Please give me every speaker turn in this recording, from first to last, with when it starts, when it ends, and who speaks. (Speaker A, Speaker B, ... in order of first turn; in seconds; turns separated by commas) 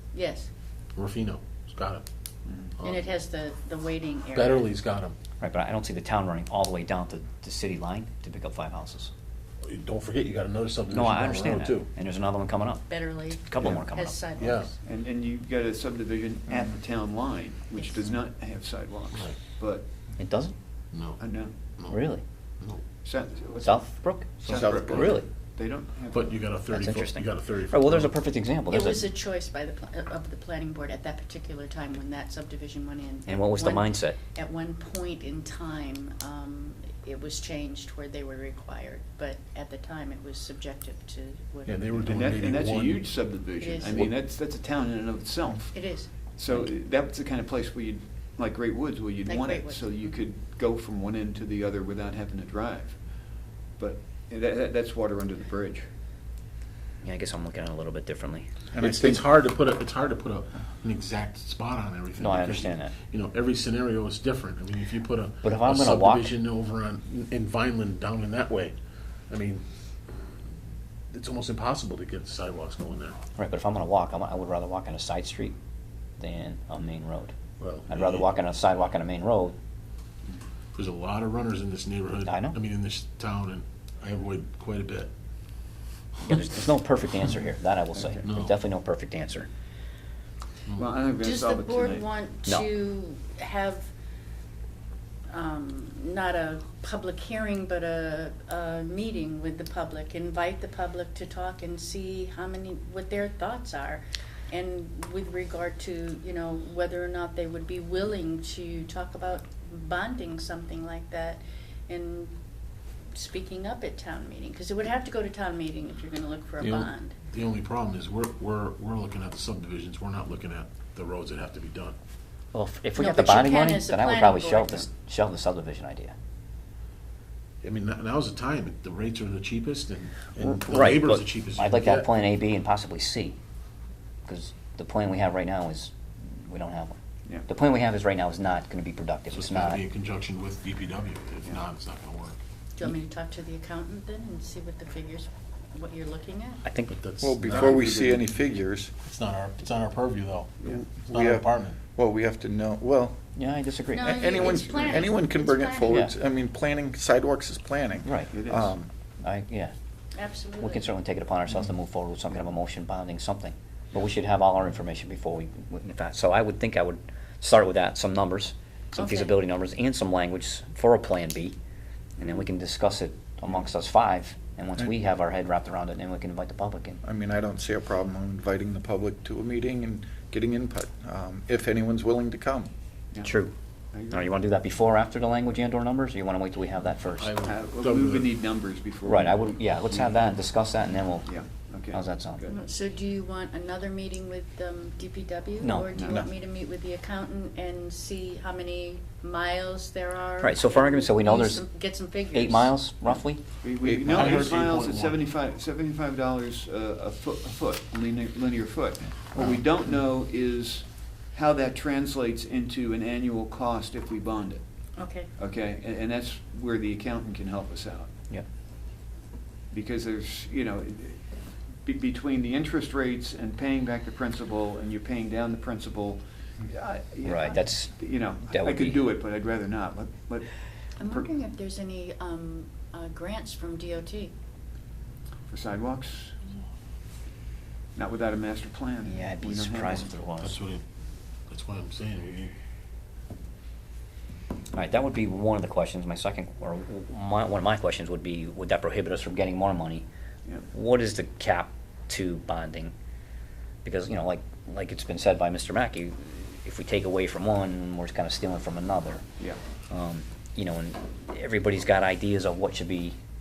Speaker A: 0.1-0.5, Speaker B: 0.9-2.0, Speaker C: 2.5-2.7, Speaker B: 2.8-3.0, Speaker A: 2.8-4.7, Speaker B: 4.3-5.1, Speaker D: 5.4-9.1, Speaker B: 9.6-11.9, Speaker D: 10.9-14.2, Speaker A: 12.9-14.7, Speaker B: 14.4-14.7, Speaker C: 14.8-19.9, Speaker D: 20.2-20.5, Speaker B: 20.9-21.2, Speaker C: 21.2-21.6, Speaker B: 21.8-22.0, Speaker D: 21.9-22.2, Speaker C: 23.0-26.4, Speaker D: 23.6-25.3, Speaker E: 24.5-25.2, Speaker B: 26.1-28.1, Speaker D: 26.7-29.1, Speaker A: 28.7-42.4, Speaker D: 33.3-34.2, Speaker B: 41.7-43.0, Speaker C: 42.1-55.9, Speaker A: 43.6-44.1, Speaker A: 45.7-46.1, Speaker A: 49.2-49.9, Speaker D: 57.0-58.5, Speaker E: 58.7-59.3, Speaker B: 58.8-68.7, Speaker D: 62.2-62.9, Speaker D: 65.4-66.3, Speaker B: 69.3-69.6, Speaker B: 71.1-73.2, Speaker D: 73.3-75.5, Speaker D: 76.2-77.3, Speaker B: 77.6-78.3, Speaker D: 77.9-79.5, Speaker B: 80.7-85.1, Speaker D: 82.2-82.6, Speaker D: 86.2-89.5, Speaker B: 88.2-88.5, Speaker C: 90.7-92.0, Speaker A: 91.2-93.9, Speaker A: 95.3-112.3, Speaker A: 113.1-117.1, Speaker B: 116.6-122.0, Speaker D: 122.5-126.1, Speaker A: 123.0-124.9, Speaker B: 127.6-132.1, Speaker D: 130.6-133.4, Speaker D: 134.2-139.8, Speaker B: 139.3-142.4, Speaker A: 142.8-146.6, Speaker D: 146.6-147.0, Speaker B: 146.9-147.8, Speaker E: 147.2-148.9, Speaker C: 147.5-148.2, Speaker B: 149.0-151.8, Speaker E: 151.0-153.2, Speaker D: 153.3-154.5, Speaker A: 153.9-156.1, Speaker E: 154.1-158.9, Speaker C: 154.4-155.1, Speaker D: 155.9-156.1, Speaker D: 158.0-158.3, Speaker C: 158.3-158.7, Speaker D: 159.2-159.7, Speaker A: 160.1-160.9, Speaker D: 160.6-171.6, Speaker A: 168.9-169.3, Speaker D: 172.2-177.0, Speaker E: 177.0-182.7, Speaker D: 183.2-183.5, Speaker C: 183.9-184.3, Speaker D: 184.1-187.3, Speaker B: 187.1-188.3, Speaker C: 187.4-190.2, Speaker D: 189.0-191.3, Speaker C: 191.2-192.6, Speaker D: 191.9-192.4, Speaker A: 192.5-202.8, Speaker D: 195.6-196.2, Speaker C: 195.9-196.2, Speaker D: 200.4-201.6, Speaker D: 202.3-203.4, Speaker C: 203.6-214.6, Speaker E: 203.8-204.3, Speaker B: 204.1-205.2, Speaker A: 215.0-215.3, Speaker C: 215.4-218.1, Speaker C: 219.7-221.2, Speaker C: 221.8-231.3, Speaker D: 227.2-229.1, Speaker A: 231.0-234.3, Speaker C: 235.5-236.4, Speaker C: 237.9-240.1, Speaker D: 239.0-240.6, Speaker B: 240.4-240.8, Speaker B: 241.5-242.5, Speaker D: 244.7-250.1, Speaker D: 250.7-252.9, Speaker D: 253.8-259.2, Speaker D: 259.9-263.2